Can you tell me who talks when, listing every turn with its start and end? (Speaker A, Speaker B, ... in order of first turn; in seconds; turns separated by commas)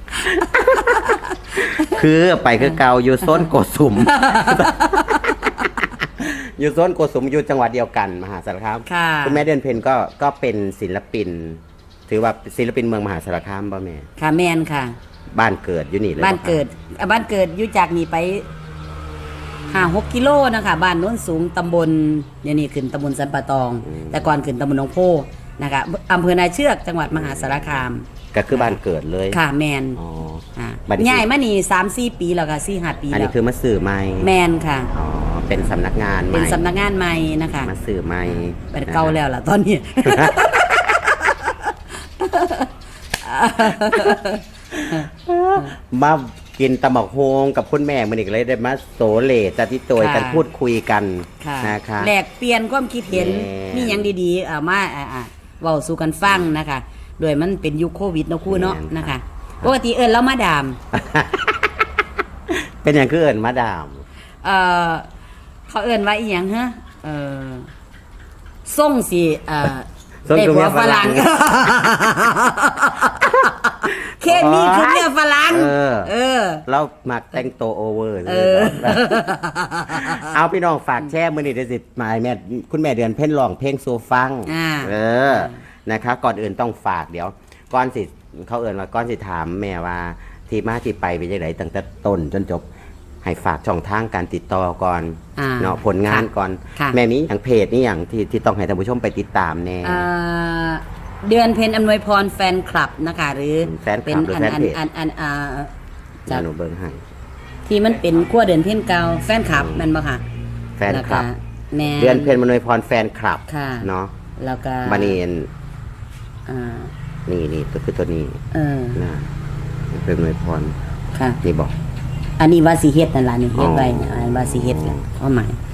Speaker A: 0.2-2.0, Speaker B: 0.3-5.5, Speaker A: 2.6-3.5, Speaker A: 4.0-5.7, Speaker B: 6.2-14.1, Speaker A: 8.9-9.4, Speaker A: 14.2-15.0, Speaker B: 15.3-16.6, Speaker A: 16.2-18.5, Speaker A: 19.7-28.8, Speaker B: 23.8-24.3, Speaker B: 27.1-29.4, Speaker A: 29.3-30.0, Speaker B: 30.0-31.2, Speaker A: 30.6-33.3, Speaker B: 33.1-34.3, Speaker A: 34.2-34.9, Speaker B: 34.9-36.6, Speaker A: 36.3-37.7, Speaker B: 37.6-39.2, Speaker A: 38.3-45.7, Speaker B: 40.0-40.4, Speaker B: 44.7-52.1, Speaker A: 50.0-50.4, Speaker A: 51.4-60.8, Speaker B: 53.1-54.1, Speaker B: 56.2-56.5, Speaker B: 58.5-59.7, Speaker B: 60.9-61.5, Speaker B: 62.5-64.0, Speaker A: 64.4-65.1, Speaker A: 65.7-67.7, Speaker A: 68.7-76.6, Speaker B: 70.2-71.3, Speaker B: 73.8-76.1, Speaker B: 76.7-79.2, Speaker A: 78.2-80.3, Speaker B: 79.9-92.7, Speaker A: 84.5-85.6, Speaker B: 93.2-100.1, Speaker A: 95.3-97.0, Speaker A: 99.8-105.7, Speaker B: 103.6-104.8, Speaker B: 106.3-107.0, Speaker A: 107.7-110.2, Speaker B: 109.5-109.9, Speaker B: 110.8-111.3, Speaker A: 110.9-112.4, Speaker B: 111.9-114.1, Speaker A: 113.5-115.2, Speaker B: 114.8-115.5, Speaker A: 116.5-116.9, Speaker B: 117.3-118.4, Speaker A: 118.5-119.0, Speaker B: 118.9-119.3, Speaker B: 119.9-120.8, Speaker A: 121.1-121.4, Speaker B: 121.4-121.7, Speaker A: 122.4-125.6, Speaker B: 123.5-125.0